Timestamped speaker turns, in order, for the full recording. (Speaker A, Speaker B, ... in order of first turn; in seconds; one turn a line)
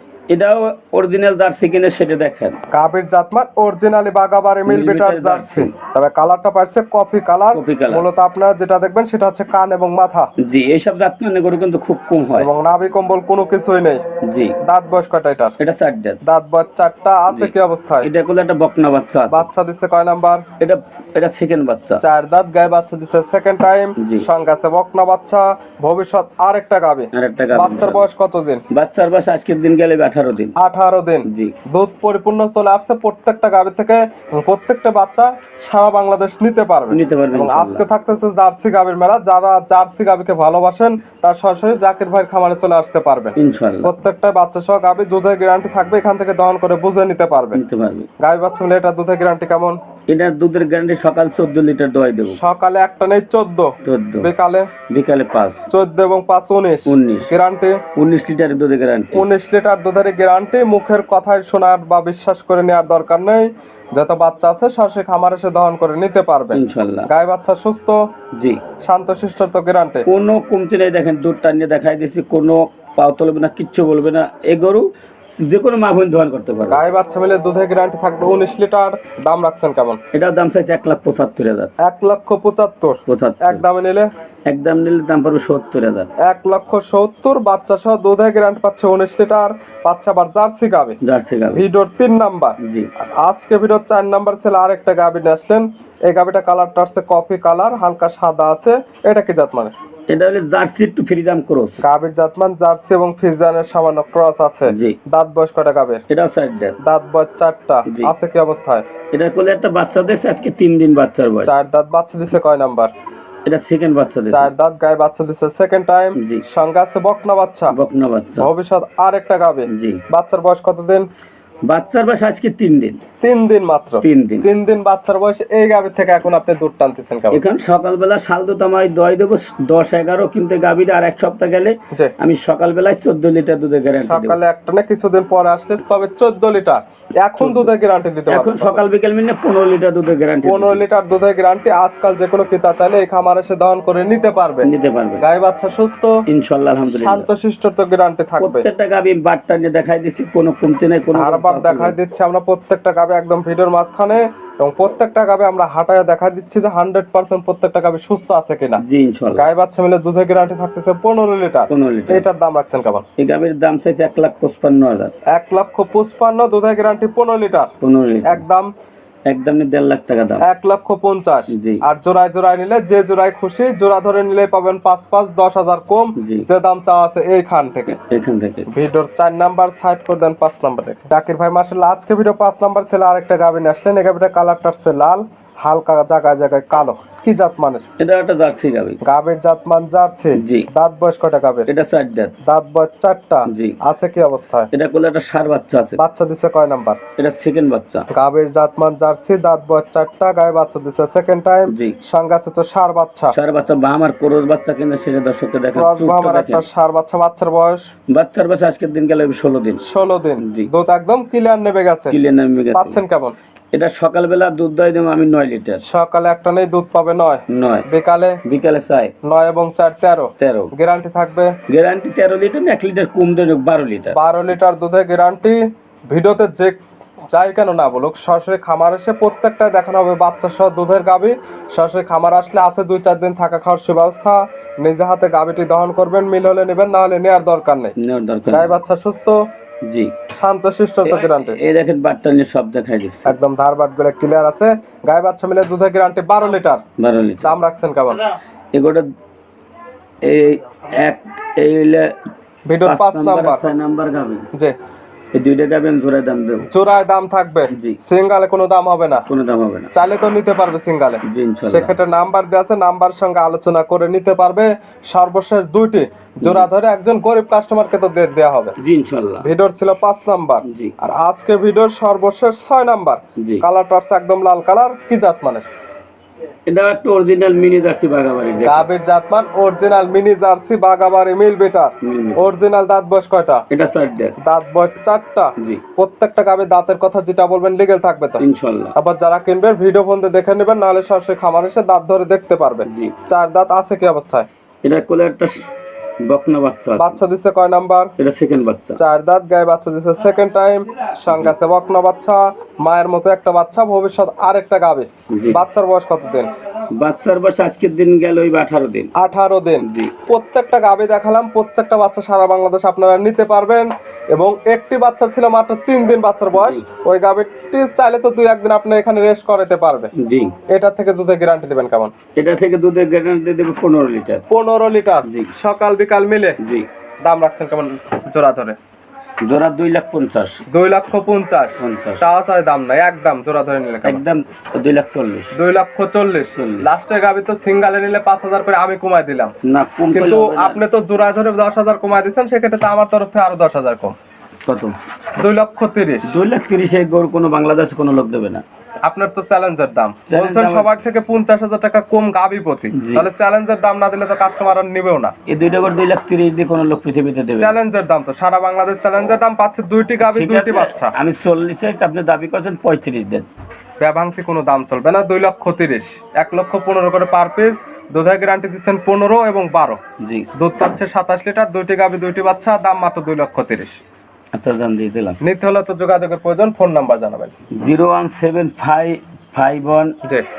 Speaker A: 0.3-2.6
Speaker B: 2.7-10.3
Speaker A: 4.7-5.7
Speaker A: 7.5-8.1
Speaker A: 10.4-12.5
Speaker B: 12.4-14.0
Speaker A: 14.2-14.5
Speaker B: 14.6-15.5
Speaker A: 15.6-16.2
Speaker B: 16.2-18.1
Speaker A: 17.3-19.4
Speaker B: 19.3-20.4
Speaker A: 20.6-22.0
Speaker B: 22.0-28.6
Speaker A: 24.0-24.2
Speaker A: 27.1-28.0
Speaker A: 28.7-30.5
Speaker B: 30.6-47.6
Speaker A: 31.3-31.5
Speaker A: 36.9-37.8
Speaker A: 43.4-43.9
Speaker A: 47.5-48.1
Speaker B: 48.2-49.8
Speaker A: 50.1-52.4
Speaker B: 52.3-53.7
Speaker A: 53.8-54.3
Speaker B: 54.2-54.7
Speaker A: 54.9-55.6
Speaker B: 55.7-57.8
Speaker A: 56.9-57.3
Speaker A: 58.0-59.2
Speaker B: 59.1-68.0
Speaker A: 66.5-67.1
Speaker B: 68.8-70.0
Speaker A: 70.1-74.9
Speaker A: 75.4-76.8
Speaker B: 76.7-80.0
Speaker A: 80.1-81.7
Speaker B: 81.8-84.1
Speaker A: 83.0-83.6
Speaker A: 84.5-86.1
Speaker B: 86.2-91.0
Speaker A: 91.0-91.6
Speaker B: 91.5-92.5
Speaker A: 92.6-92.9
Speaker B: 93.2-99.7
Speaker A: 100.1-101.8
Speaker B: 101.8-106.0
Speaker A: 104.7-105.0
Speaker A: 106.1-106.8
Speaker B: 106.8-108.8
Speaker A: 109.1-111.5
Speaker B: 111.4-112.9
Speaker A: 113.5-114.5
Speaker B: 114.3-117.7
Speaker A: 116.2-116.4
Speaker A: 117.7-118.5
Speaker B: 118.4-121.1
Speaker A: 119.7-120.0
Speaker A: 121.7-123.0
Speaker B: 123.2-127.4
Speaker A: 124.0-124.5
Speaker A: 127.3-134.4
Speaker B: 133.9-138.8
Speaker A: 137.4-137.7
Speaker A: 138.3-140.8
Speaker B: 140.4-144.7
Speaker A: 144.6-145.2
Speaker B: 145.2-146.1
Speaker A: 146.3-147.3
Speaker B: 146.9-148.7
Speaker A: 148.4-151.9
Speaker B: 151.1-158.8
Speaker A: 158.8-159.5
Speaker B: 159.3-163.0
Speaker A: 161.7-162.2
Speaker A: 163.2-165.1
Speaker B: 165.3-167.7
Speaker A: 167.8-168.4
Speaker B: 168.2-168.7
Speaker A: 169.3-170.4
Speaker B: 170.4-177.9
Speaker A: 171.5-171.8
Speaker A: 176.2-176.5
Speaker A: 177.9-178.7
Speaker B: 178.7-187.8
Speaker A: 188.0-189.0
Speaker B: 189.0-191.7
Speaker A: 190.4-190.7
Speaker A: 191.7-192.3
Speaker B: 192.4-194.7
Speaker A: 193.5-193.8
Speaker A: 194.7-196.0
Speaker B: 196.0-197.0
Speaker A: 197.2-198.1
Speaker B: 198.1-203.3
Speaker A: 201.7-201.9
Speaker A: 203.3-206.6
Speaker B: 205.7-207.8
Speaker A: 208.1-209.8
Speaker B: 209.8-212.2
Speaker A: 210.4-210.7
Speaker A: 212.1-213.0
Speaker B: 212.7-213.3
Speaker A: 213.7-215.8
Speaker B: 215.8-218.4
Speaker A: 217.5-217.9
Speaker A: 218.4-219.1
Speaker B: 219.2-221.5
Speaker A: 220.4-220.7
Speaker A: 221.7-224.2
Speaker B: 224.1-226.8
Speaker B: 227.3-237.9
Speaker A: 238.0-238.8
Speaker B: 238.5-239.4
Speaker A: 239.9-240.1
Speaker B: 240.3-241.6
Speaker A: 241.0-243.3
Speaker B: 243.2-246.8
Speaker A: 247.0-247.5
Speaker B: 247.4-248.2
Speaker A: 248.7-249.1
Speaker A: 250.2-252.1
Speaker B: 252.7-253.6
Speaker A: 252.8-254.5
Speaker A: 255.3-256.6
Speaker B: 256.7-259.2
Speaker A: 257.7-258.0
Speaker A: 259.3-259.9
Speaker B: 259.9-268.7
Speaker A: 261.3-262.0
Speaker A: 268.8-269.5
Speaker B: 269.4-275.6
Speaker A: 270.6-270.9
Speaker A: 273.4-273.6
Speaker A: 276.7-278.9
Speaker B: 278.6-283.6
Speaker A: 282.0-282.5
Speaker A: 283.7-284.3
Speaker B: 284.4-288.4
Speaker A: 288.4-288.9
Speaker B: 288.9-294.5
Speaker A: 292.9-293.1
Speaker A: 294.8-295.7
Speaker A: 296.2-297.2
Speaker B: 297.0-298.1
Speaker A: 298.2-299.0
Speaker B: 299.0-306.5
Speaker A: 305.3-305.6
Speaker A: 307.0-309.1
Speaker B: 309.2-320.1
Speaker A: 309.8-310.1
Speaker A: 316.5-316.8
Speaker A: 320.2-320.5
Speaker B: 320.7-322.1
Speaker A: 322.4-324.4
Speaker B: 324.5-326.6
Speaker A: 325.3-325.5
Speaker A: 326.6-326.9
Speaker B: 327.2-328.8
Speaker A: 329.4-330.6
Speaker B: 330.7-334.2
Speaker A: 331.8-332.2
Speaker A: 334.0-335.5
Speaker B: 335.5-339.5
Speaker A: 336.5-336.9
Speaker A: 339.6-340.8
Speaker B: 340.1-344.1
Speaker A: 344.6-344.9
Speaker B: 345.4-346.4
Speaker A: 346.3-348.6
Speaker B: 349.0-355.3
Speaker A: 350.3-350.9
Speaker A: 352.9-353.3
Speaker A: 355.5-357.7
Speaker B: 357.6-361.1
Speaker A: 360.2-363.5
Speaker B: 364.0-370.0
Speaker A: 370.2-370.5
Speaker B: 370.5-374.0
Speaker A: 374.5-375.4
Speaker B: 375.4-377.5
Speaker A: 377.7-380.1